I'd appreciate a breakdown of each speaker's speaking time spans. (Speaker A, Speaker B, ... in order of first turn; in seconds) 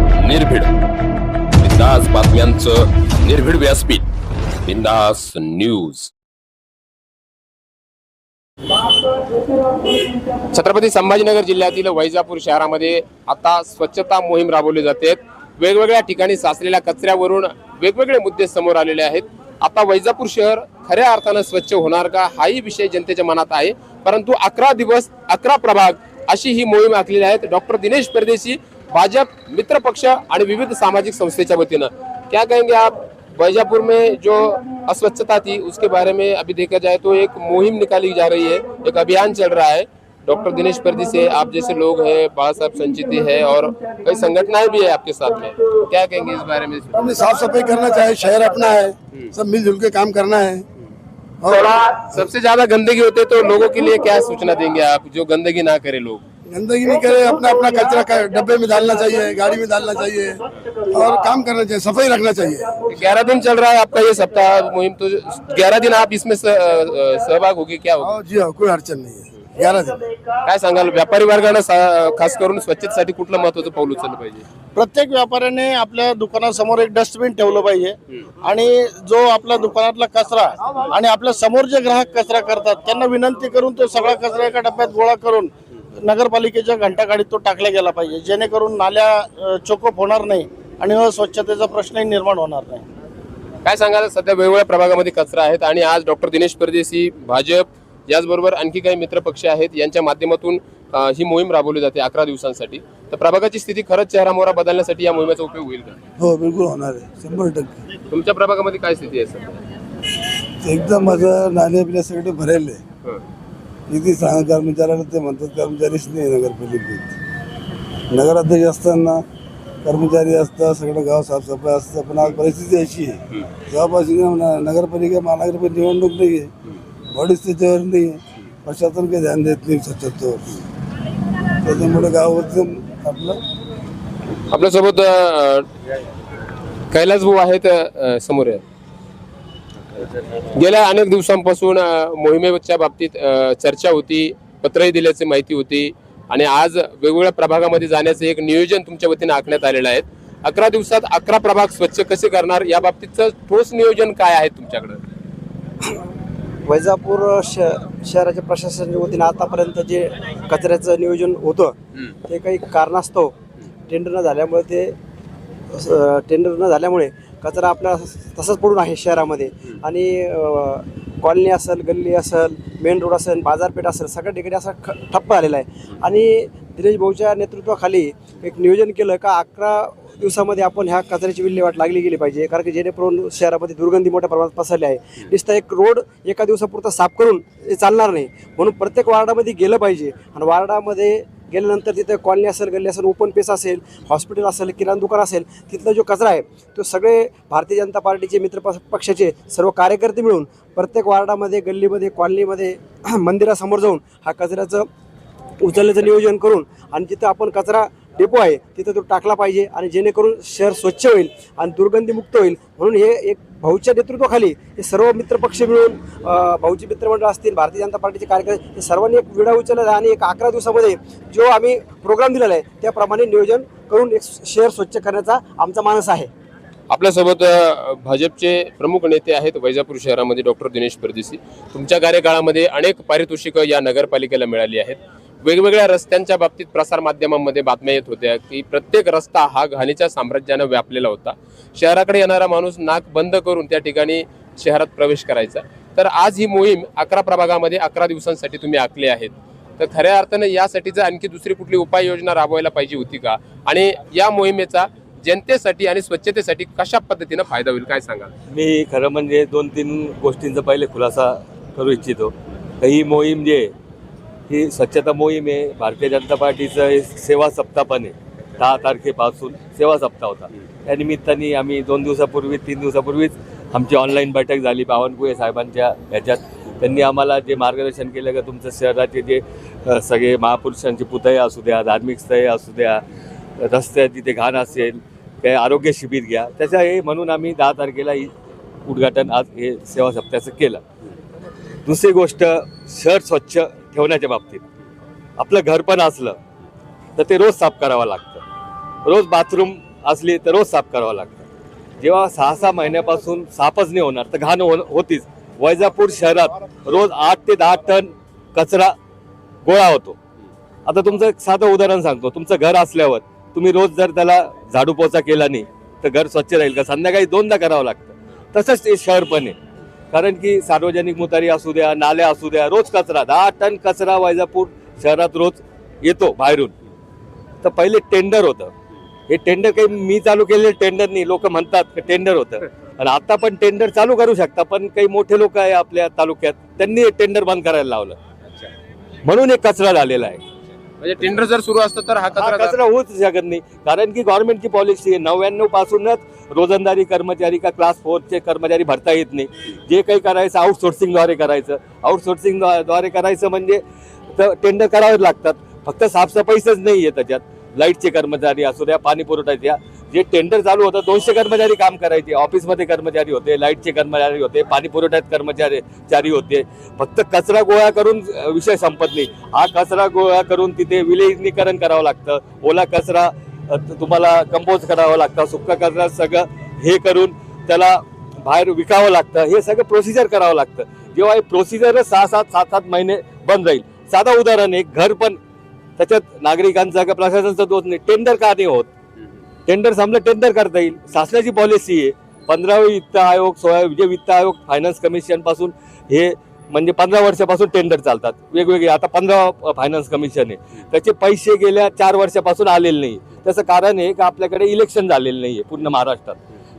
Speaker A: 0.2-0.7, 1.6-4.0, 4.7-6.1, 10.5-47.0, 51.5-56.2, 62.9-68.1, 70.4-74.4, 93.6-106.0, 108.1-109.6, 134.5-135.6, 136.9-138.6, 140.5-155.0, 226.9-258.3, 341.0-342.8
Speaker B: 47.0-50.6, 51.4-51.7, 56.5-62.8, 68.0-70.1, 106.2-107.7, 110.6-112.8, 113.9-117.1, 118.1-119.2, 119.8-126.5, 127.1-130.6, 131.6-133.4
Speaker C: 74.7-92.8
Speaker D: 156.7-161.7, 162.3-163.3, 163.9-164.9, 165.7-204.9, 205.6-226.3
Speaker E: 258.5-263.7, 264.5-283.0, 283.6-288.3, 288.9-290.8, 291.9-294.6, 295.4-296.4, 297.2-298.4, 299.0-301.4, 302.0-308.9, 309.6-310.2, 310.9-319.6, 320.1-326.7, 327.6-328.7, 329.3-338.2, 339.2-340.4, 342.4-353.8, 354.3-385.4, 386.0-388.9, 389.7-406.4